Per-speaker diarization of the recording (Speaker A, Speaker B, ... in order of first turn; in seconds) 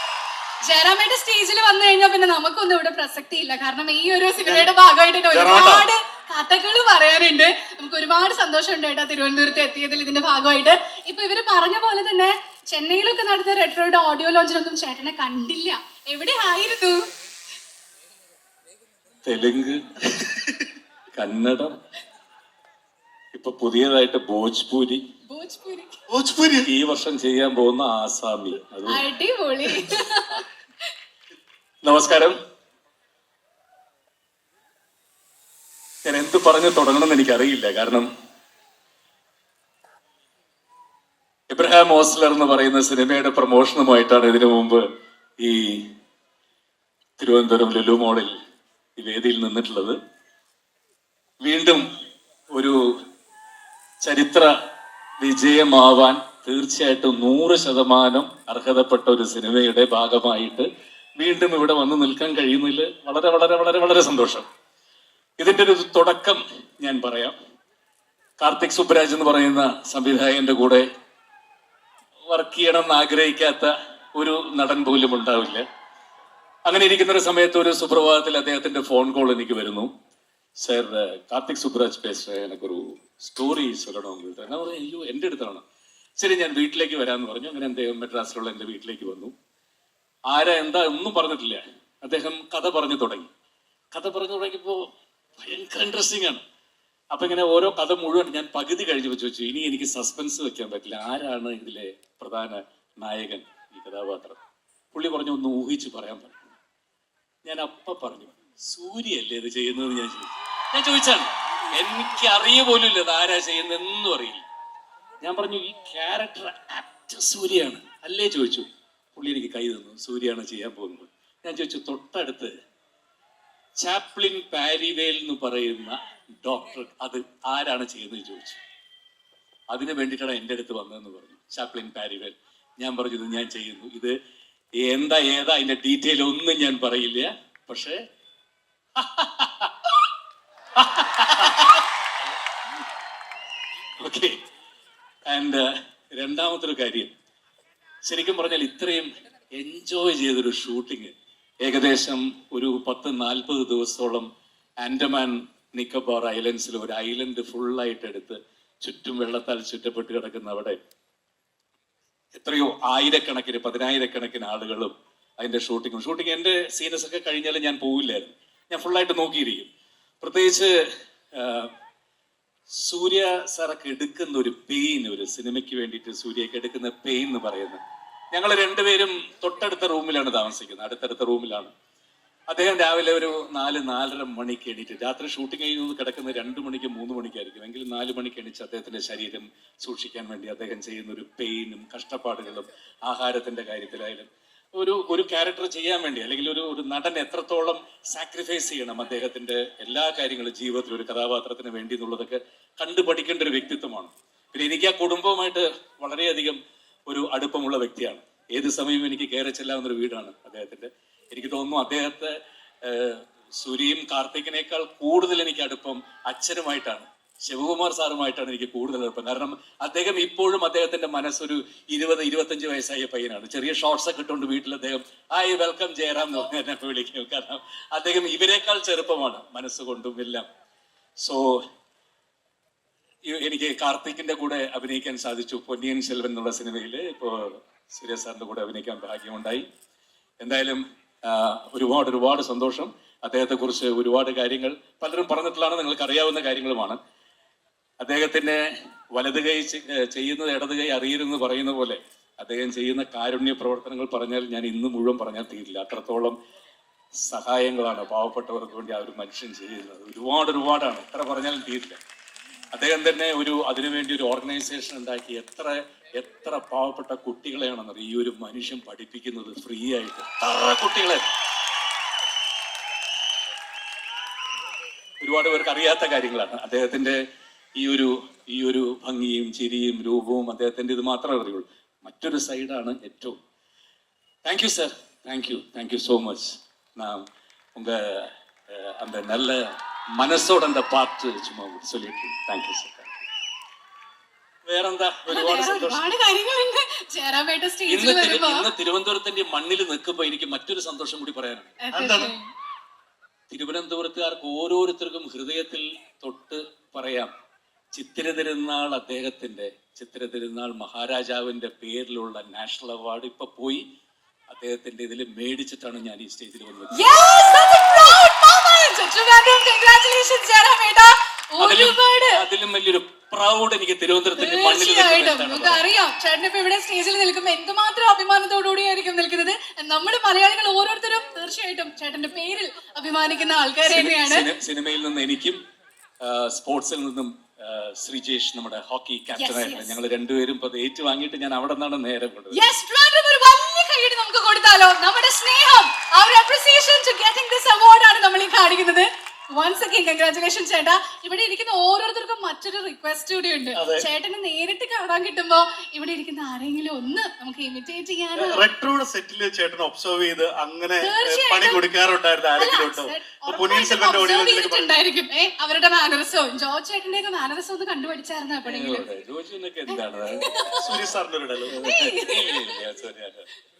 Speaker A: 0.6-17.0, 25.3-26.0, 28.9-30.5, 295.3-298.7, 301.8-302.4, 316.9-322.4, 324.4-334.5, 339.3-339.9, 342.5-358.6, 361.0-361.8, 362.6-369.1, 369.9-370.9, 371.7-372.8
Speaker B: 4.4-4.7, 5.3-5.9, 26.1-26.7, 301.9-302.3, 353.7-354.1, 358.4-364.9, 370.8-371.8
Speaker C: 19.2-20.3, 21.1-21.7, 23.3-25.0, 26.6-29.1, 31.9-32.4, 36.0-38.1, 41.5-44.8, 45.4-45.9, 47.2-48.3, 49.0-50.0, 51.4-51.8, 54.0-54.5, 55.2-64.5, 65.4-67.4, 68.4-70.8, 72.3-75.6, 76.7-79.9, 80.6-85.6, 86.2-89.3, 90.3-93.3, 93.9-96.4, 97.1-104.4, 104.9-106.4, 107.4-114.4, 115.2-122.5, 123.8-128.6, 129.7-134.1, 134.8-138.0, 139.0-139.7, 140.8-141.8, 144.0-144.4, 145.2-147.1, 148.0-154.3, 154.8-160.8, 162.3-169.7, 170.2-170.7, 171.3-171.7, 172.8-177.8, 178.3-181.7, 182.5-230.4, 231.2-231.6, 233.2-239.7, 240.4-247.0, 248.0-248.6, 249.2-256.4, 257.2-262.0, 262.7-271.2, 275.2-277.2, 277.8-283.4, 284.4-289.6, 290.2-293.2, 294.6-296.0, 297.9-301.8, 303.5-307.3, 307.9-313.8, 314.5-317.1, 321.6-325.9, 333.8-335.6, 336.2-342.6, 368.6-370.5, 371.7-373.5